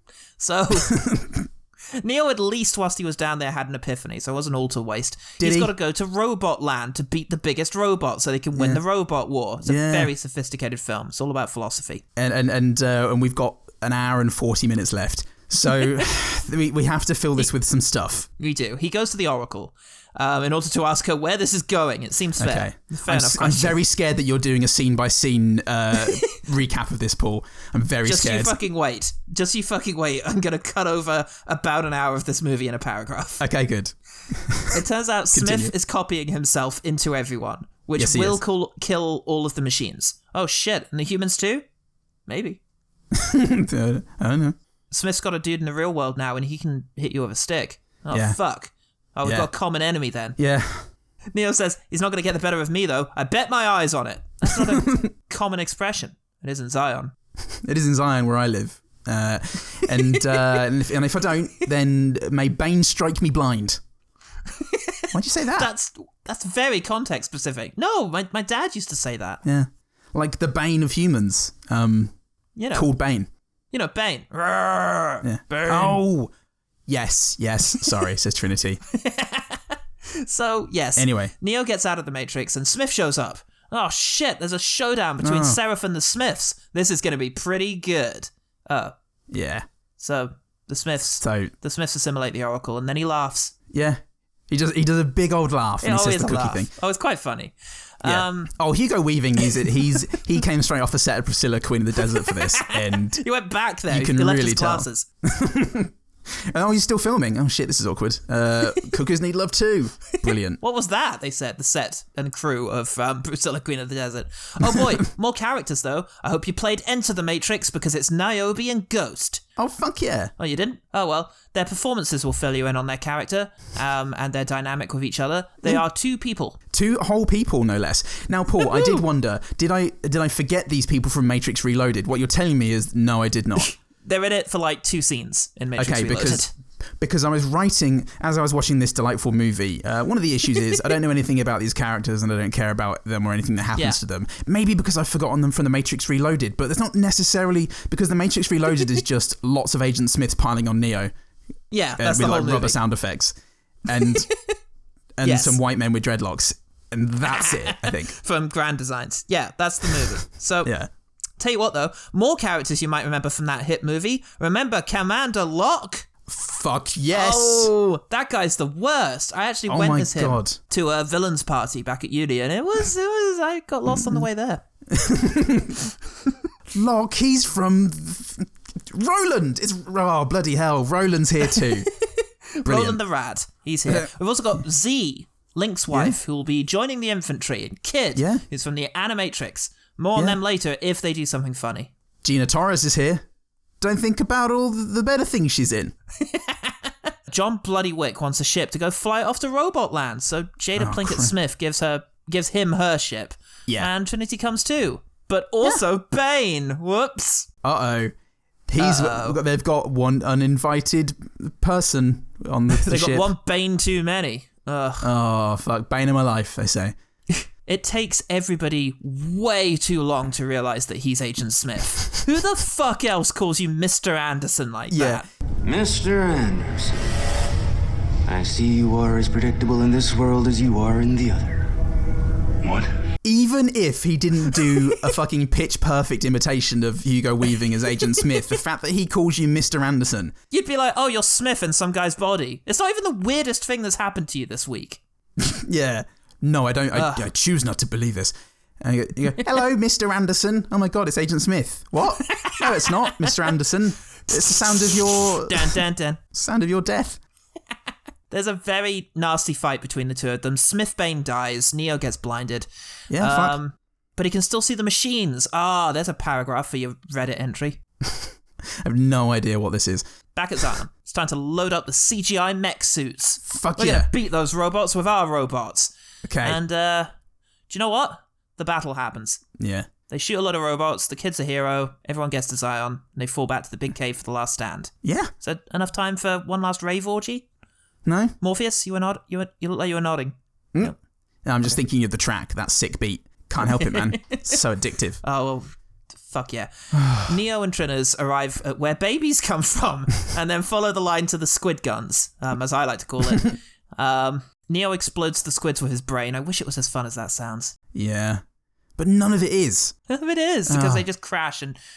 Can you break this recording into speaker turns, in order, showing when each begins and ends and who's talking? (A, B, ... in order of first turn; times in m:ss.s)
0:00.4-0:00.9 A
0:00.8-0:01.4 B
0:02.0-0:12.0 A
0:05.4-0:05.7 B
0:08.5-0:08.8 B
0:09.6-0:10.1 B
0:12.2-0:18.3 B
0:18.4-0:23.8 A
0:22.4-0:28.6 B
0:28.0-0:33.4 A
0:33.4-0:34.8 B
0:34.7-0:41.6 A
0:35.3-0:35.7 B
0:38.0-0:38.4 B
0:42.3-0:42.6 A
0:43.1-0:44.6 B
0:44.9-0:50.4 A
0:48.1-0:48.4 B
0:49.2-0:49.5 B
0:50.4-0:50.8 B
0:51.3-0:57.1 A
0:54.5-0:55.1 B
0:57.6-1:03.8 B
1:04.6-1:09.4 A
1:05.1-1:05.7 B
1:09.4-1:12.1 B
1:12.6-1:12.9 A
1:12.7-1:13.3 B
1:13.7-1:16.0 A
1:15.2-1:16.3 B
1:16.9-1:18.8 B
1:18.9-1:28.9 A
1:21.0-1:21.3 B
1:25.2-1:25.6 B
1:29.3-1:29.6 B
1:30.0-1:33.5 A
1:31.2-1:31.5 B
1:33.7-1:36.7 B
1:35.8-1:38.5 A
1:38.0-1:43.2 B
1:42.3-1:45.0 A
1:43.9-1:50.6 B
1:50.2-1:59.4 A
1:59.6-2:00.3 B
2:00.4-2:06.6 A
2:06.7-2:13.7 B
2:08.6-2:09.0 A
2:13.6-2:16.5 A
2:15.8-2:31.1 B
2:31.7-2:32.8 A
2:32.0-2:34.3 B
2:34.0-2:34.6 A
2:35.2-2:38.1 B
2:35.2-2:35.6 A
2:37.2-2:40.7 A
2:40.6-2:40.9 B
2:41.4-2:46.1 A
2:46.3-2:47.7 B
2:47.1-2:54.6 A
2:49.7-2:50.6 B
2:53.9-2:54.2 B
2:54.9-2:55.9 B
2:56.7-3:01.9 B
3:01.6-3:11.9 A
3:02.6-3:03.0 B
3:03.8-3:04.1 B
3:05.9-3:06.2 B
3:08.1-3:08.4 B
3:12.2-3:13.2 B
3:13.8-3:15.9 B
3:16.2-3:27.5 A
3:20.8-3:21.3 B
3:27.6-3:28.1 B
3:28.7-3:33.3 B
3:28.8-3:29.4 A
3:32.8-3:35.1 A
3:35.0-3:36.9 B
3:37.6-3:45.2 A
3:44.9-3:45.2 B
3:45.6-3:47.0 C
3:48.2-3:51.8 C
3:52.6-3:52.9 C
3:53.2-4:00.3 B
4:00.5-4:05.0 A
4:05.4-4:15.8 B
4:06.9-4:07.3 A
4:12.3-4:13.3 A
4:14.8-4:16.2 A
4:16.3-4:17.2 B
4:18.3-4:27.8 A
4:23.1-4:23.6 B
4:28.0-4:30.0 B
4:30.3-4:37.1 A
4:33.4-4:34.1 B
4:36.2-4:36.6 B
4:37.7-4:39.4 A
4:39.6-4:39.9 B
4:40.1-4:47.4 A
4:45.0-4:45.3 B
4:48.0-4:48.4 B
4:48.4-4:50.9 A
4:50.7-4:55.2 B
4:53.7-4:54.6 A
4:55.2-5:07.7 A
4:56.9-4:57.2 B
5:07.9-5:08.4 B
5:09.0-5:10.0 B
5:10.1-5:11.8 A
5:10.7-5:11.0 B